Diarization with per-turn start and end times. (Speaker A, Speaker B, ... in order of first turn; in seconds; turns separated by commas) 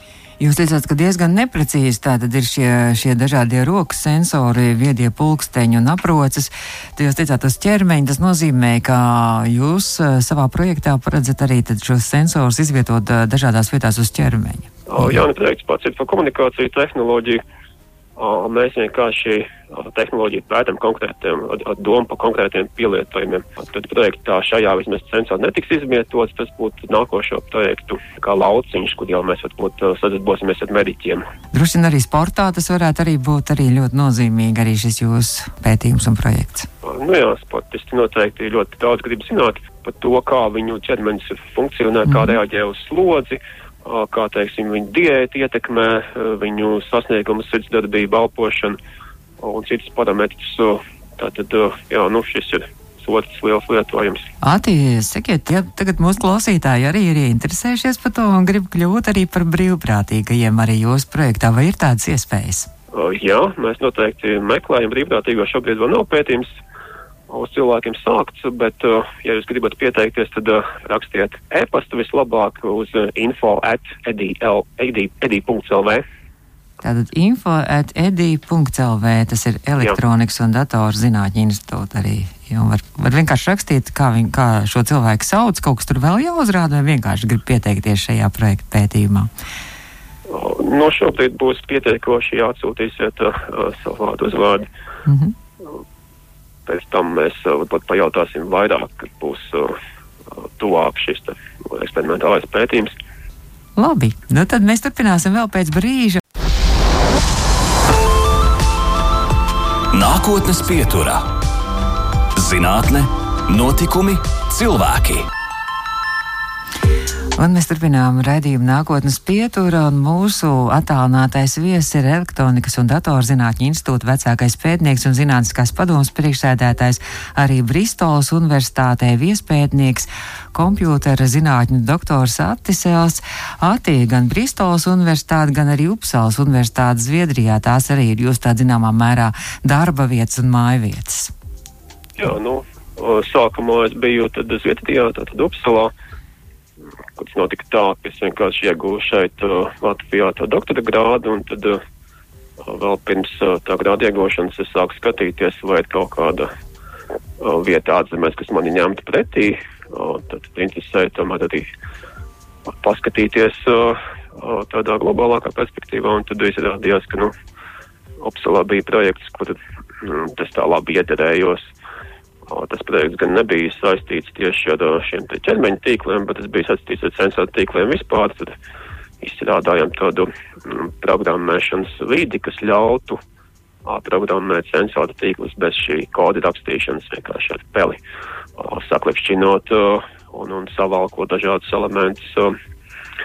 Speaker A: 0.4-15.1, Speaker B: 14.9-17.4, Speaker B: 18.1-31.2, Speaker A: 31.5-36.7, Speaker B: 36.8-48.8, Speaker A: 42.1-42.3, Speaker B: 49.4-54.3, Speaker A: 54.4-62.7, Speaker B: 62.9-66.5, Speaker B: 67.3-76.0, Speaker A: 76.8-89.3, Speaker B: 90.3-94.7, Speaker A: 95.0-95.3, Speaker B: 96.7-99.8, Speaker B: 100.3-102.9, Speaker A: 103.8-106.2, Speaker C: 109.9-111.2, Speaker C: 112.3-115.3, Speaker A: 117.4-141.3, Speaker B: 142.2-145.9, Speaker B: 147.1-151.8, Speaker B: 152.6-156.5, Speaker B: 157.4-161.7, Speaker B: 162.8-167.3, Speaker B: 168.2-171.7, Speaker B: 172.5-178.5, Speaker B: 179.2-183.2, Speaker B: 183.8-188.0, Speaker B: 188.6-192.6